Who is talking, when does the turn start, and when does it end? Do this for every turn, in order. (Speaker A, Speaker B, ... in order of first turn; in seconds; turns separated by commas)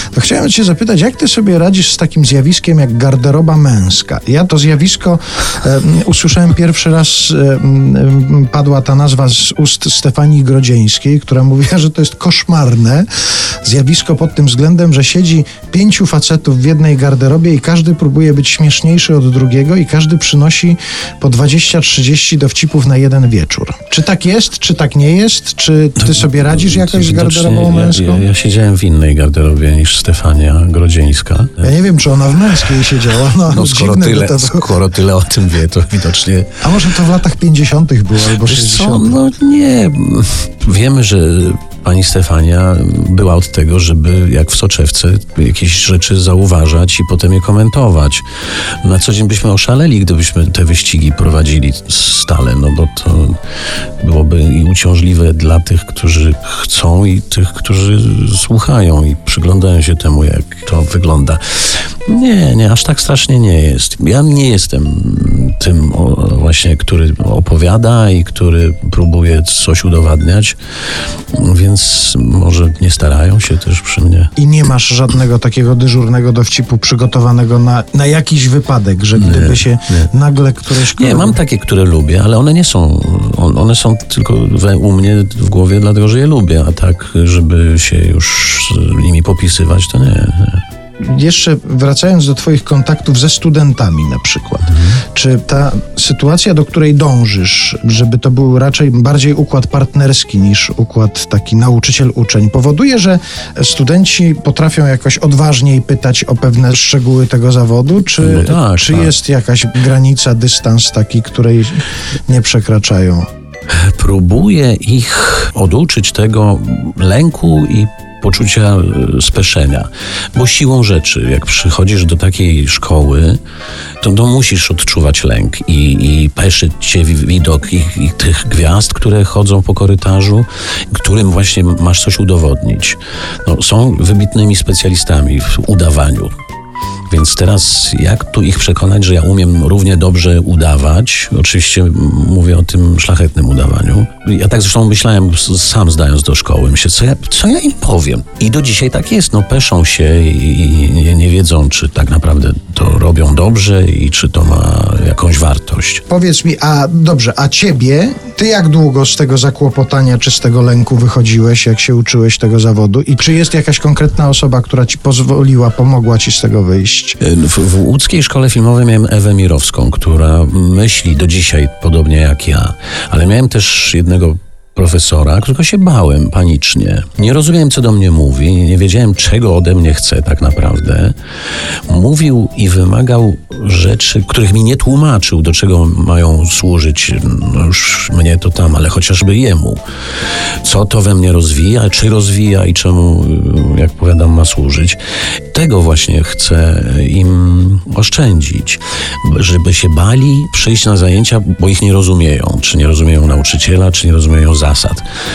Speaker A: 0.1-13.1, Speaker A: 13.6-28.3, Speaker B: 26.0-31.8, Speaker A: 31.6-34.7, Speaker B: 33.5-36.7, Speaker A: 36.6-39.2, Speaker B: 38.3-48.2, Speaker B: 48.8-53.4, Speaker B: 54.0-61.4, Speaker B: 62.1-70.6, Speaker B: 71.3-74.3, Speaker A: 74.4-81.4, Speaker B: 79.2-80.1, Speaker B: 80.9-90.6, Speaker A: 91.0-113.3, Speaker B: 108.2-109.1, Speaker B: 113.7-123.4, Speaker B: 124.0-136.3, Speaker B: 137.1-156.1, Speaker A: 156.1-167.2, Speaker B: 167.2-181.2, Speaker B: 181.9-189.8, Speaker B: 190.6-195.0, Speaker B: 195.5-205.1